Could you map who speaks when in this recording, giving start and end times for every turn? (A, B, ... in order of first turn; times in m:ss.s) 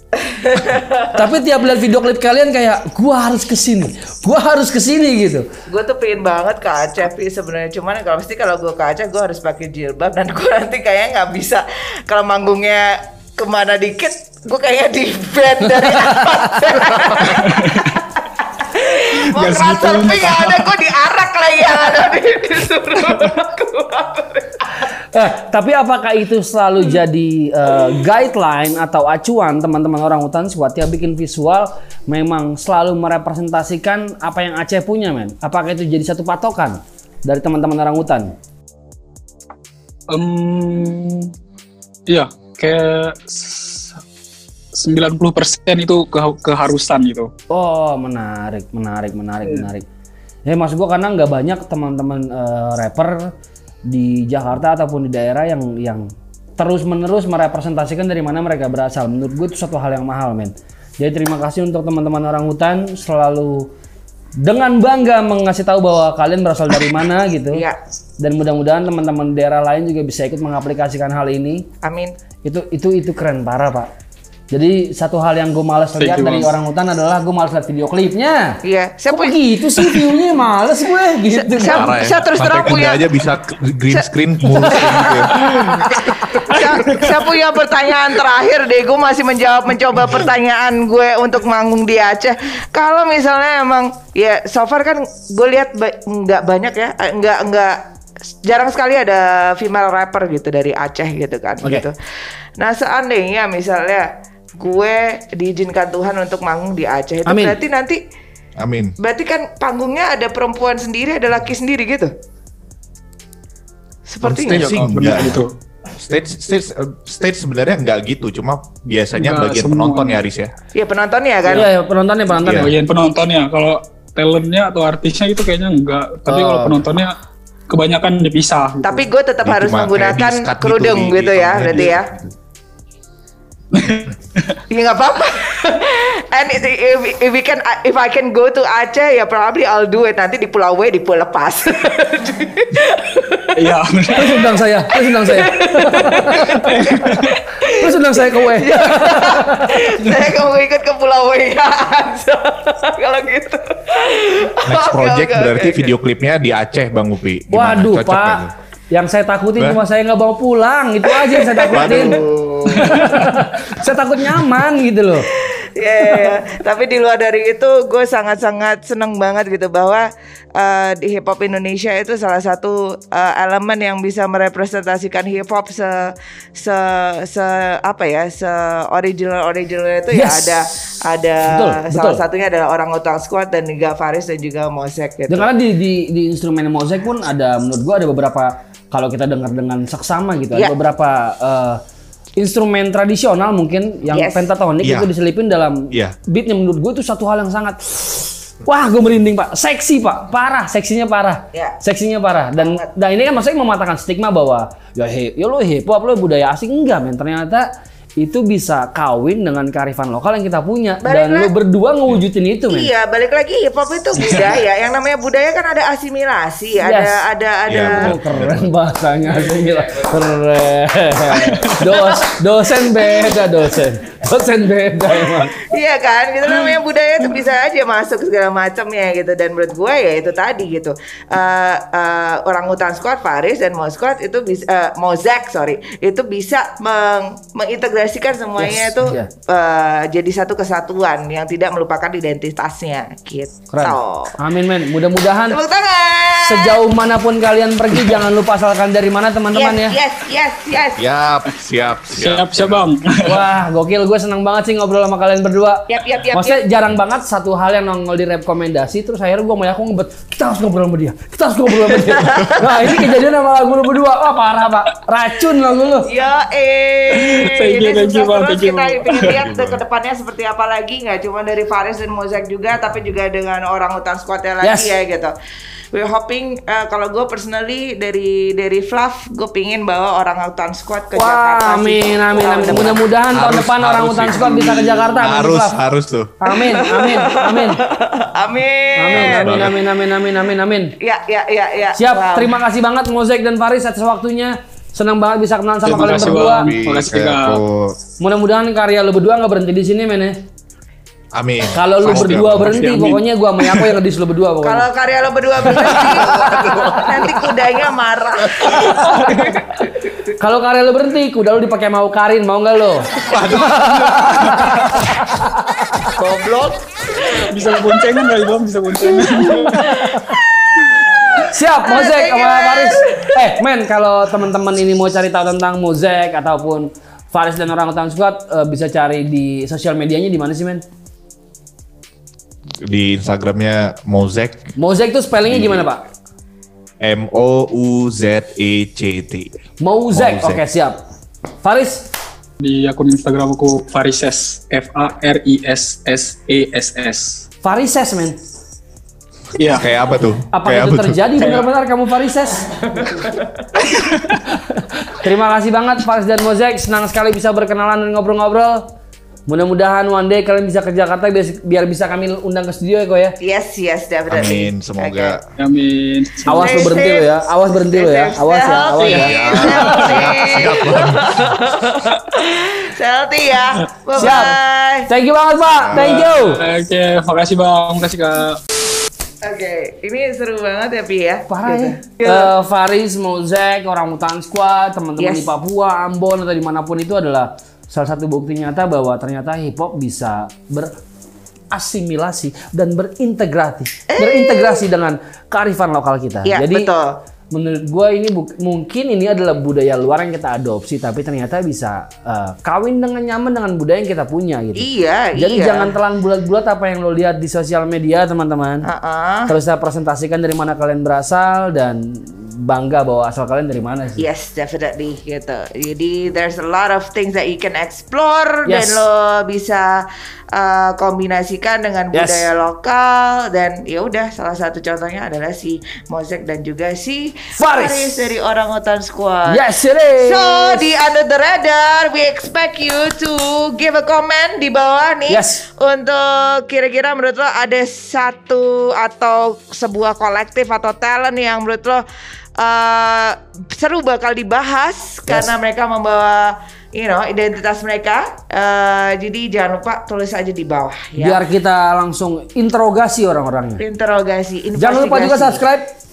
0:00.2-0:01.2 A
0:01.1-0:05.5 B
0:05.7-0:24.9 A
0:17.3-0:17.9 C
0:19.1-0:20.7 C
0:25.1-0:38.4 B
0:40.1-0:41.3 C
0:42.1-0:44.0 C
0:44.8-0:47.3 C
0:47.5-0:49.9 B
0:50.5-0:53.3 B
0:53.9-1:03.7 B
1:04.4-1:07.6 B
1:07.5-1:07.8 A
1:08.2-1:11.7 B
1:11.8-1:12.1 A
1:12.4-1:13.9 B
1:14.5-1:18.6 B
1:16.0-1:16.5 C
1:18.6-1:19.4 A
1:19.1-1:21.9 B
1:21.3-1:23.1 A
1:21.6-1:25.4 D
1:24.6-1:37.8 A
1:38.3-1:42.0 A
1:42.6-1:48.0 A
1:47.3-1:47.6 B
1:48.6-1:49.0 D
1:49.0-1:52.1 A
1:54.1-1:54.8 A
1:54.2-2:00.5 D
1:54.5-1:55.5 C
1:59.2-2:00.2 C
2:00.7-2:01.7 A
2:01.5-2:02.7 B
2:02.4-2:02.7 D
2:02.4-2:07.2 C
2:06.3-2:06.8 B
2:07.7-2:09.0 C
2:08.8-2:12.1 A
2:09.4-2:12.3 D
2:13.7-2:14.6 C
2:14.7-2:23.5 A
2:23.6-2:24.4 C
2:24.2-2:26.8 B
2:25.2-2:35.9 A
2:26.5-2:27.3 C
2:27.8-2:29.9 B
2:34.6-2:38.5 D
2:37.5-2:42.2 B
2:41.2-2:42.2 A
2:41.7-2:43.0 D
2:42.7-2:45.3 B
2:45.3-3:05.5 A
3:00.1-3:00.9 B
3:01.5-3:02.2 B
3:05.3-3:11.8 B
3:12.4-3:27.7 B
3:14.1-3:14.5 A
3:14.8-3:15.1 D
3:22.6-3:22.9 A
3:28.2-3:32.9 B
3:31.0-3:31.5 A
3:32.7-3:38.1 A
3:36.8-3:37.2 B
3:37.7-3:38.7 D
3:37.8-3:45.6 B
3:41.4-3:42.1 C
3:45.5-4:04.4 A
3:58.6-3:59.3 B
4:03.7-4:05.6 B
4:05.5-4:06.8 A
4:06.4-4:10.0 B
4:09.5-4:11.0 A
4:11.0-4:12.8 D
4:12.2-4:13.3 C
4:13.2-4:26.1 B
4:15.9-4:16.6 A
4:22.1-4:22.6 A
4:26.1-4:35.3 A
4:27.1-4:29.4 C
4:29.2-4:29.8 D
4:34.6-4:34.9 B
4:35.9-4:43.0 A
4:41.2-4:45.8 B
4:42.7-4:46.4 D
4:46.4-4:47.8 B
4:46.6-4:49.6 A
4:49.0-4:50.9 B
4:49.1-4:49.8 D
4:51.0-4:52.5 A
4:52.0-4:56.7 B
4:55.8-4:58.0 D
4:55.9-4:57.6 C
4:58.2-5:00.4 B
5:01.3-5:03.0 D
5:01.7-5:04.9 B
5:02.7-5:03.9 C
5:04.6-5:10.2 A
5:06.1-5:07.1 D
5:08.9-5:09.6 C
5:10.4-5:16.1 B
5:13.2-5:14.7 D
5:14.5-5:14.8 C
5:16.2-5:16.7 A
5:17.5-5:19.9 C
5:19.5-5:20.2 A
5:19.8-5:20.4 B
5:21.4-5:30.8 B
5:21.8-5:23.4 A
5:32.8-5:34.7 D
5:34.8-5:36.1 B
5:35.5-5:35.9 D
5:37.0-5:39.6 D
5:39.8-5:41.0 B
5:40.1-5:40.6 D
5:41.6-5:42.1 B
5:42.6-5:47.5 C
5:47.6-5:48.4 B
5:49.6-5:49.9 C
5:49.7-5:51.2 D
5:50.5-5:52.7 B
5:53.8-5:54.4 C
5:54.7-5:58.8 B
5:59.5-6:03.4 B
6:03.4-6:05.4 A
6:04.3-6:05.4 D
6:05.6-6:07.0 C
6:06.5-6:09.6 B
6:06.5-6:07.3 A
6:07.9-6:15.1 A
6:09.0-6:10.3 C
6:09.1-6:11.6 D
6:14.2-6:14.6 B
6:15.1-6:16.6 B
6:15.8-6:16.4 D
6:16.0-6:18.6 C
6:19.4-6:22.5 A
6:21.5-6:30.9 B
6:25.2-6:25.5 A
6:31.7-6:36.9 B
6:34.1-6:34.8 A
6:36.5-6:37.1 A
6:37.5-6:48.9 B
6:44.8-6:45.9 A
6:48.9-6:49.5 A
6:49.5-6:54.2 B
6:54.2-7:09.6 A
6:58.7-6:59.0 B
7:02.1-7:02.5 B
7:07.5-7:08.2 B
7:09.5-7:10.9 B
7:10.2-7:22.0 A
7:15.3-7:15.6 B
7:22.6-7:31.4 A
7:25.3-7:25.5 B
7:31.2-7:33.8 B
7:33.8-7:35.6 A
7:34.8-7:35.9 B